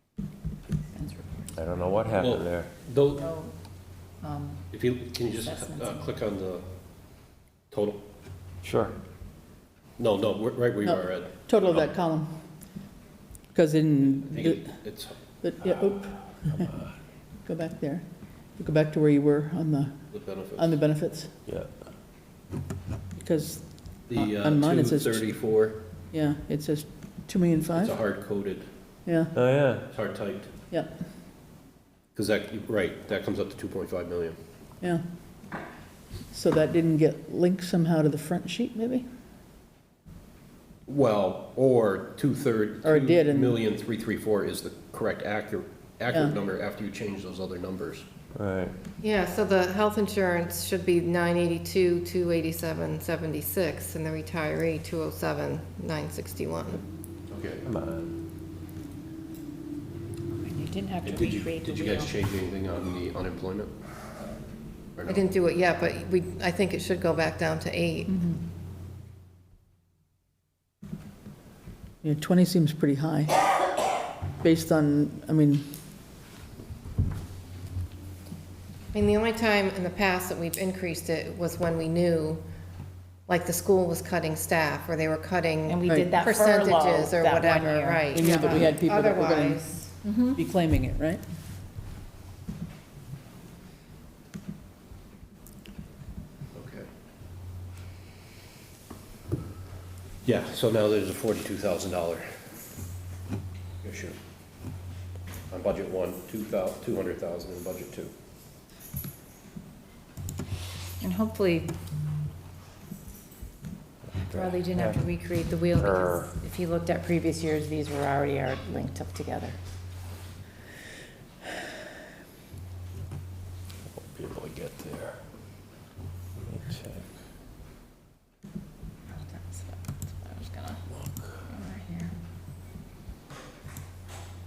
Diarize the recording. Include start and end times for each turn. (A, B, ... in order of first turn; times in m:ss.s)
0:01.0-0:01.5 A
0:01.6-0:02.7 B
0:02.2-0:03.3 C
0:03.2-0:03.5 A
0:04.2-0:04.6 A
0:04.7-0:06.6 C
0:05.4-0:06.1 A
0:07.7-0:08.0 C
0:08.6-0:09.0 B
0:10.0-0:11.9 C
0:10.8-0:12.3 D
0:13.5-0:14.8 D
0:14.3-0:15.1 C
0:15.4-0:16.8 D
0:17.4-0:18.0 D
0:18.6-0:21.3 D
0:20.1-0:20.7 C
0:23.2-0:25.3 D
0:24.1-0:25.8 C
0:26.1-0:28.0 D
0:27.8-0:28.7 C
0:29.1-0:29.3 D
0:29.4-0:29.8 B
0:29.9-0:30.5 C
0:32.2-0:34.4 C
0:36.3-0:39.1 D
0:40.9-0:48.1 C
0:42.8-0:43.6 D
0:48.4-0:48.8 B
0:49.0-0:56.8 E
0:57.3-0:57.6 C
0:57.6-0:58.2 B
1:00.4-1:02.2 A
1:01.0-1:03.7 C
1:05.0-1:05.2 C
1:05.1-1:08.3 E
1:08.1-1:08.4 D
1:12.0-1:13.3 D
1:14.4-1:15.7 D
1:18.9-1:22.4 E
1:23.3-1:30.0 E
1:25.7-1:28.6 A
1:25.8-1:26.2 D
1:28.1-1:29.6 D
1:30.0-1:30.4 A
1:30.3-1:31.2 D
1:36.5-1:36.9 C
1:40.2-1:42.4 C
1:43.8-1:44.2 C
1:45.5-1:48.1 C
1:51.0-1:51.7 A
1:54.2-1:56.3 B
1:54.3-1:59.6 A
2:03.9-2:05.2 B
2:06.5-2:07.1 B
2:09.2-2:10.8 A
2:11.5-2:12.1 A